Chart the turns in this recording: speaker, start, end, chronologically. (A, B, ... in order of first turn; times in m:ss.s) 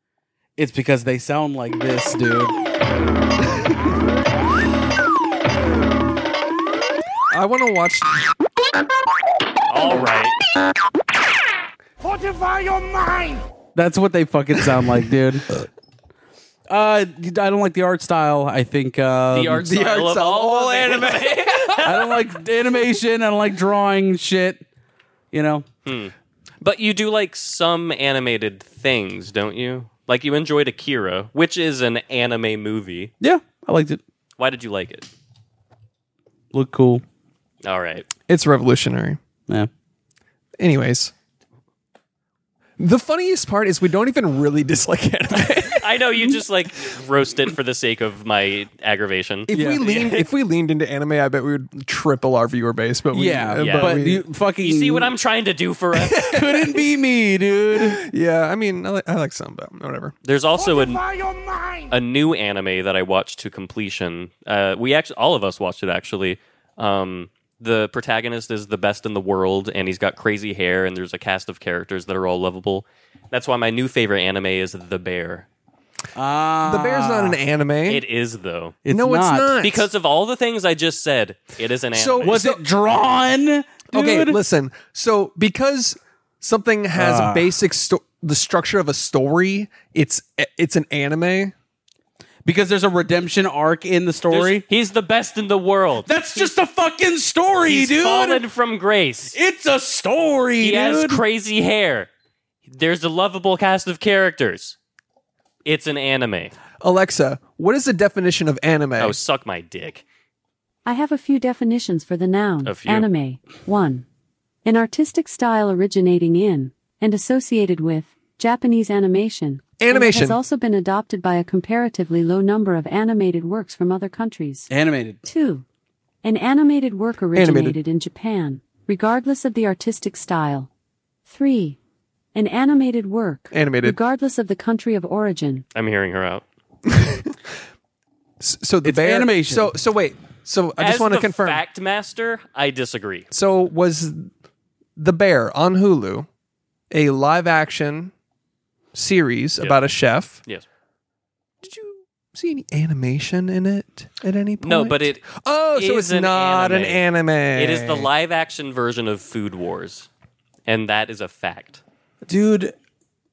0:00.6-0:02.6 A
0:07.3-0:08.2 B
0:09.7-0:10.4 C
0:13.8-0:15.5 A
0:16.7-0:19.7 A
0:19.3-0:22.2 C
0:19.6-0:21.9 B
0:21.8-0:24.6 A
0:25.3-0:25.7 A
0:25.8-0:33.1 C
0:33.2-0:34.0 A
0:34.4-0:35.1 C
0:36.5-0:37.0 A
0:37.6-0:38.1 C
0:38.3-0:39.2 B
0:40.6-0:41.1 B
0:42.8-0:45.9 B
0:45.5-0:50.3 C
0:49.5-0:54.2 B
0:49.5-0:49.8 A
0:53.1-0:55.1 A
0:53.6-0:54.0 C
0:54.6-0:56.4 C
0:56.1-0:56.5 B
0:56.3-0:58.0 A
0:57.7-1:00.2 B
1:00.2-1:15.5 C
1:16.2-1:17.4 A
1:16.6-1:18.0 B
1:17.9-1:18.8 C
1:18.8-1:19.6 A
1:18.9-1:19.9 B
1:19.6-1:22.4 C
1:21.9-1:22.6 B
1:22.2-1:24.4 A
1:23.9-1:31.5 B
1:27.0-1:27.5 A
1:32.4-1:34.6 A
1:34.3-1:36.5 C
1:36.0-1:38.4 A
1:37.7-1:39.4 C
1:39.3-1:41.2 A
1:40.6-1:42.1 C
1:42.7-1:44.8 C
1:45.6-1:46.5 C
1:46.8-1:49.2 B
1:49.0-1:50.0 C
1:50.9-1:54.0 D
1:52.6-1:53.1 C
1:54.6-2:04.7 D
1:59.8-2:00.4 B
2:04.7-2:05.2 A
2:05.2-2:05.6 D
2:06.2-2:10.7 D
2:07.3-2:07.8 B
2:11.3-2:11.8 D
2:12.4-2:15.7 D
2:13.5-2:14.0 B
2:15.8-2:16.4 C
2:16.9-2:17.4 B
2:18.4-2:21.6 B
2:18.8-2:19.7 A
2:20.8-2:23.3 C
2:23.3-2:24.3 B
2:25.0-2:26.3 B
2:26.9-2:28.1 B
2:28.9-2:30.4 B
2:31.6-2:38.1 B
2:34.6-2:40.1 C
2:40.7-2:41.8 C
2:42.3-2:42.8 A